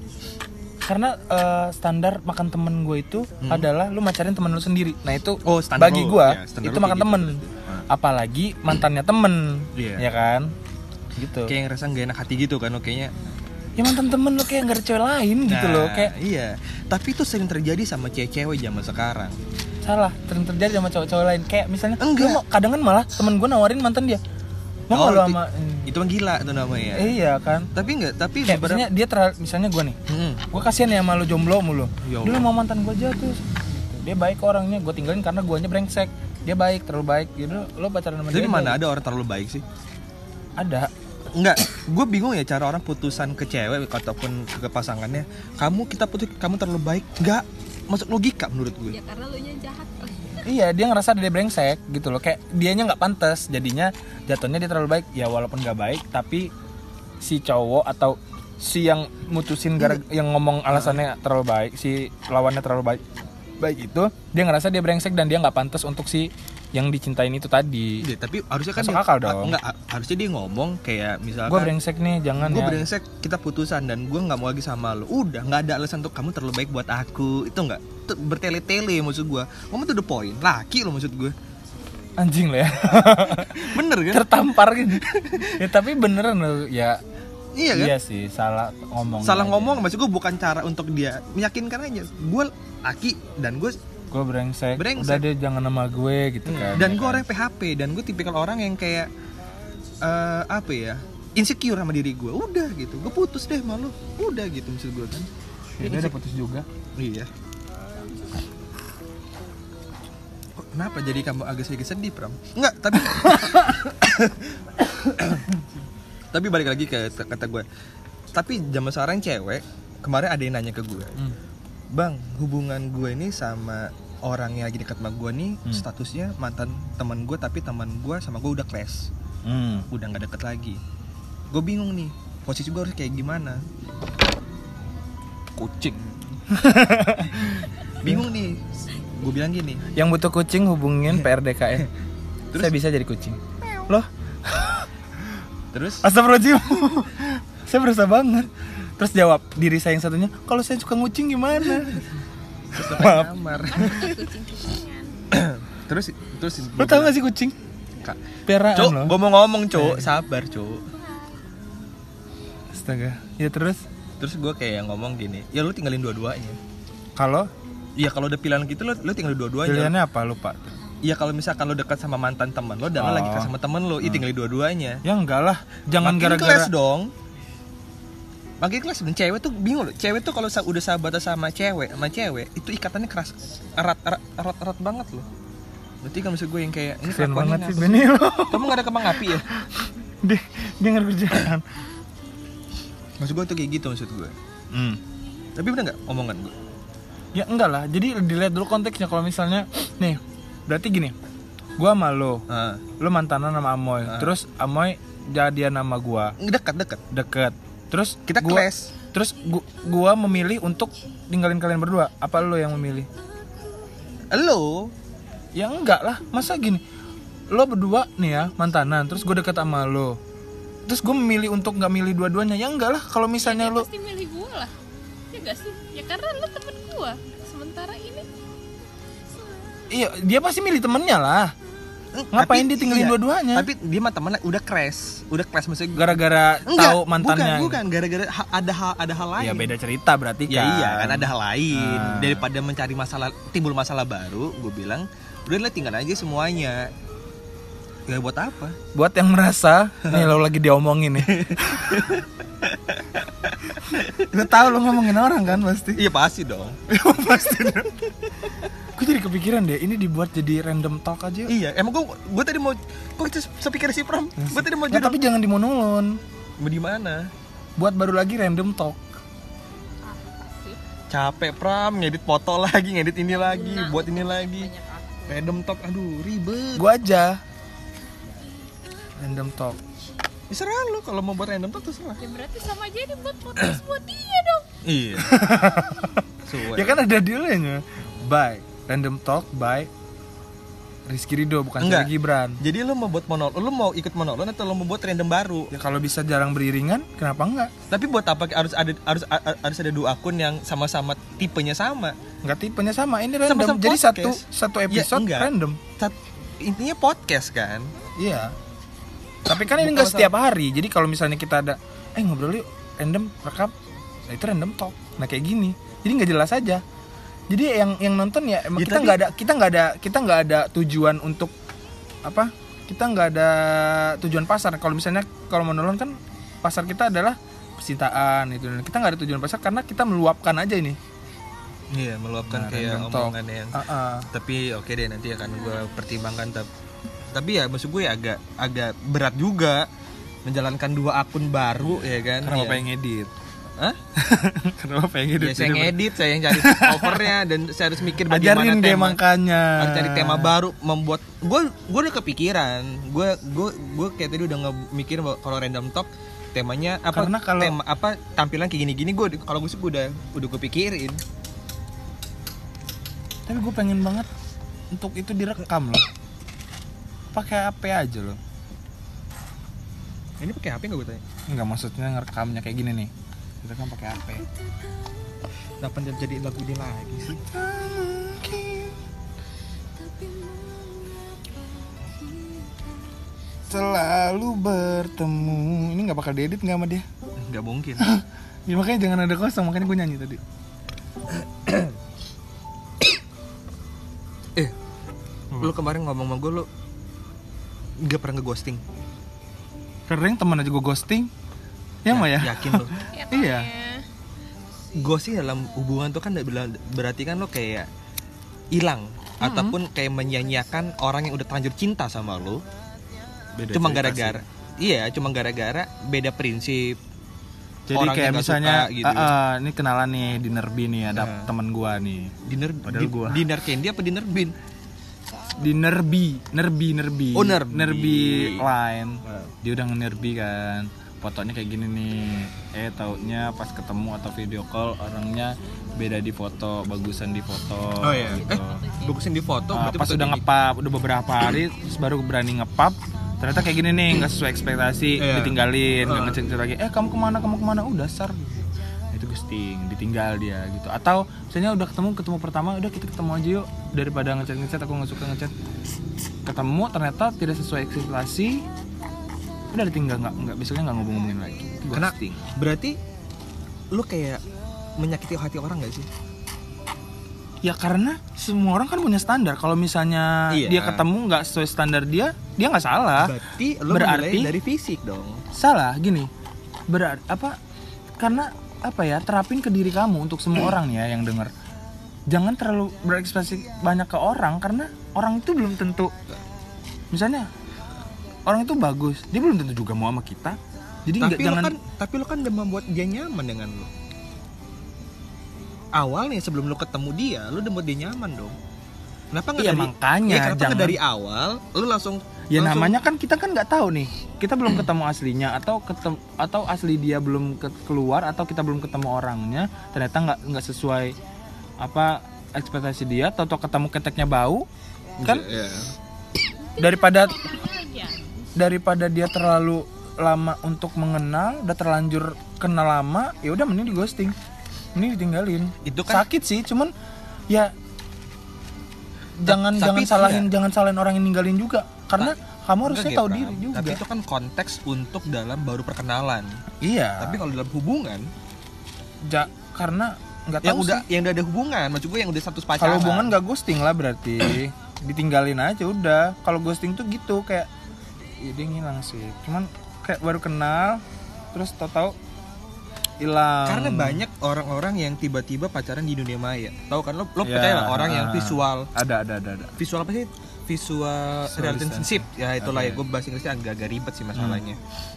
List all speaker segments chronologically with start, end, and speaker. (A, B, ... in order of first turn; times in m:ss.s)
0:00.8-0:10.5 A
0:03.4-0:03.7 B
0:05.4-0:07.8 B
0:09.8-0:10.0 B
0:11.2-0:11.5 A
0:11.4-0:13.2 B
0:13.8-0:16.1 A
0:15.4-0:19.4 B
0:19.8-0:24.2 A
0:22.0-0:22.4 B
0:24.9-0:25.9 A
0:24.9-0:27.2 B
0:26.9-0:27.7 A
0:27.7-0:28.9 B
0:28.5-0:30.0 A
0:30.1-0:30.5 B
0:30.5-0:38.8 A
0:32.0-0:32.5 B
0:38.3-0:39.6 B
0:40.6-0:40.9 A
0:41.3-0:49.0 B
0:48.9-0:50.4 C
0:50.4-0:56.5 A
0:57.2-1:03.0 A
1:00.7-1:01.0 B
1:03.6-1:08.0 A
1:08.0-1:11.7 B
1:08.7-1:09.6 A
1:11.5-1:12.9 A
1:12.4-1:21.4 B
1:22.2-1:27.0 A
1:23.0-1:25.5 B
1:27.5-1:28.0 B
1:27.7-1:29.8 A
1:29.2-1:33.8 B
1:34.1-1:37.2 A
1:34.8-1:35.2 B
1:36.4-1:39.1 B
1:40.0-1:45.3 B
1:45.8-1:46.6 A
1:45.8-1:46.2 B
1:47.0-1:47.3 B
1:50.6-1:54.6 B
1:55.2-1:55.5 B
1:56.3-1:57.6 B
1:58.3-2:01.2 B
2:01.9-2:09.1 B
2:09.4-2:09.9 A
2:09.9-2:10.8 B
2:11.5-2:13.6 B
2:15.6-2:16.0 A
2:15.9-2:16.3 B
2:16.5-2:18.2 A
2:18.0-2:19.8 B
2:19.9-2:21.9 A
2:22.5-2:24.9 A
2:25.7-2:26.0 B
2:26.0-2:32.0 A
2:32.7-2:34.2 B
2:32.8-2:33.3 A
2:33.6-2:35.2 C
2:35.3-2:37.2 B
2:36.8-2:37.5 A
2:38.5-2:39.2 A
2:38.7-2:40.8 B
2:39.7-2:40.1 A
2:42.7-2:43.8 A
2:44.2-2:46.6 B
2:47.2-2:47.5 A
2:48.0-2:49.9 B
2:49.6-2:50.8 A
2:51.0-2:55.0 B
2:53.0-2:53.5 A
2:55.0-2:56.7 A
2:56.0-2:57.1 B
2:58.6-3:05.2 B
3:06.0-3:09.5 B
3:07.0-3:09.3 A
3:10.2-3:11.6 A
3:13.2-3:14.3 B
3:14.7-3:15.0 A
3:15.5-3:16.5 B
3:17.3-3:21.1 A
3:21.8-3:22.4 A
3:22.5-3:22.8 B
3:23.0-3:26.4 A
3:24.0-3:24.3 B
3:26.4-3:27.0 B
3:27.1-3:33.1 A
3:28.2-3:28.9 B
3:34.3-3:34.9 B
3:35.5-3:36.8 A
3:37.5-3:40.2 A
3:40.9-3:43.8 A
3:43.4-3:44.7 C
3:45.3-3:48.3 C
3:49.9-3:51.5 A
3:52.1-3:59.7 B
3:52.3-3:53.7 A
3:55.9-3:57.8 A
3:59.4-4:02.4 A
4:00.5-4:06.9 B
4:08.1-4:08.8 B
4:08.9-4:12.1 A
4:10.0-4:10.3 B
4:11.2-4:14.3 B
4:13.9-4:16.0 A
4:15.9-4:16.8 B
4:16.9-4:18.1 A
4:18.9-4:21.5 A
4:21.5-4:25.2 B
4:24.4-4:26.2 A
4:26.6-4:27.3 B
4:27.8-4:29.0 A
4:30.1-4:30.8 C
4:31.1-4:34.7 B
4:33.3-4:35.4 C
4:35.3-4:36.9 B
4:36.8-4:37.4 A
4:39.2-4:39.8 A
4:40.5-4:42.2 B
4:42.2-4:44.7 C
4:44.8-4:45.5 B
4:45.2-4:49.9 A
4:46.4-4:47.0 B
4:51.1-4:52.6 A
4:51.8-4:55.7 B
4:55.7-4:57.7 A
4:57.9-5:02.2 B
5:02.4-5:05.8 A
5:03.4-5:07.9 B
5:08.2-5:08.5 A
5:09.4-5:13.7 A
5:09.6-5:10.3 B
5:14.3-5:16.8 A
5:17.5-5:21.5 A
5:18.8-5:19.2 B
5:22.2-5:31.0 A
5:31.9-5:36.7 B
5:32.5-5:34.3 A
5:37.3-5:39.9 B
5:40.4-5:42.8 B
5:42.4-5:43.3 A
5:44.2-5:47.3 A
5:45.4-6:01.2 B
5:48.3-5:50.5 A
5:57.1-5:57.8 A
6:03.5-6:04.3 A
6:04.9-6:06.0 A
6:07.3-6:08.4 A
6:10.4-6:11.2 B
6:11.5-6:13.1 A
6:13.6-6:14.4 A
6:15.8-6:17.4 B
6:17.5-6:19.0 A
6:23.7-6:27.0 A
6:27.4-6:28.1 B
6:28.0-6:30.4 A
6:31.3-6:31.9 B
6:35.6-6:36.7 B
6:38.0-6:38.8 B
6:40.1-6:41.3 A
6:42.0-6:43.7 A
6:42.1-6:42.9 B
6:43.1-6:44.0 C
6:44.9-6:47.9 B
6:48.7-6:52.6 B
6:49.4-6:49.8 A
6:53.6-6:54.4 A
6:53.7-6:57.0 B
6:57.9-7:02.3 A
6:57.9-6:59.3 B
7:01.1-7:01.5 B
7:02.4-7:04.5 B
7:02.8-7:03.4 A
7:05.6-7:18.8 A
7:07.3-7:08.7 B
7:09.2-7:09.5 B
7:18.0-7:20.4 B
7:18.5-7:19.1 C
7:19.7-7:35.5 A
7:25.2-7:26.4 B
7:36.4-7:38.6 A
7:39.7-7:42.1 A
7:41.9-7:43.0 B
7:43.9-7:44.4 B
7:45.0-7:46.1 B
7:47.6-7:53.4 A
7:50.5-7:51.0 B
7:53.2-7:55.4 B
7:53.9-7:54.5 A
7:55.5-7:56.3 A
7:56.9-7:57.6 A
7:58.2-8:01.5 A
8:02.3-8:06.1 A
8:07.1-8:07.5 A
8:08.4-8:11.7 A
8:11.2-8:13.9 B
8:15.9-8:18.6 B
8:19.3-8:23.0 B
8:19.6-8:21.0 A
8:22.5-8:31.2 A
8:31.8-8:34.6 A
8:35.2-8:35.9 B
8:36.7-8:38.5 C
8:36.8-8:37.4 A
8:38.6-8:44.3 A
8:44.9-8:46.9 A
8:45.8-8:46.2 B
8:49.4-8:54.0 A
8:49.4-8:50.5 B
8:52.2-8:56.6 B
8:56.8-8:57.4 A
8:57.2-8:58.3 B
8:59.2-9:01.0 A
9:00.6-9:03.4 B
9:02.8-9:07.7 A
9:08.4-9:11.0 A
9:11.5-9:12.2 A
9:13.2-9:14.2 A
9:13.6-9:18.9 B
9:17.4-9:19.8 A
9:19.8-9:24.8 B
9:21.5-9:23.0 A
9:24.3-9:24.6 A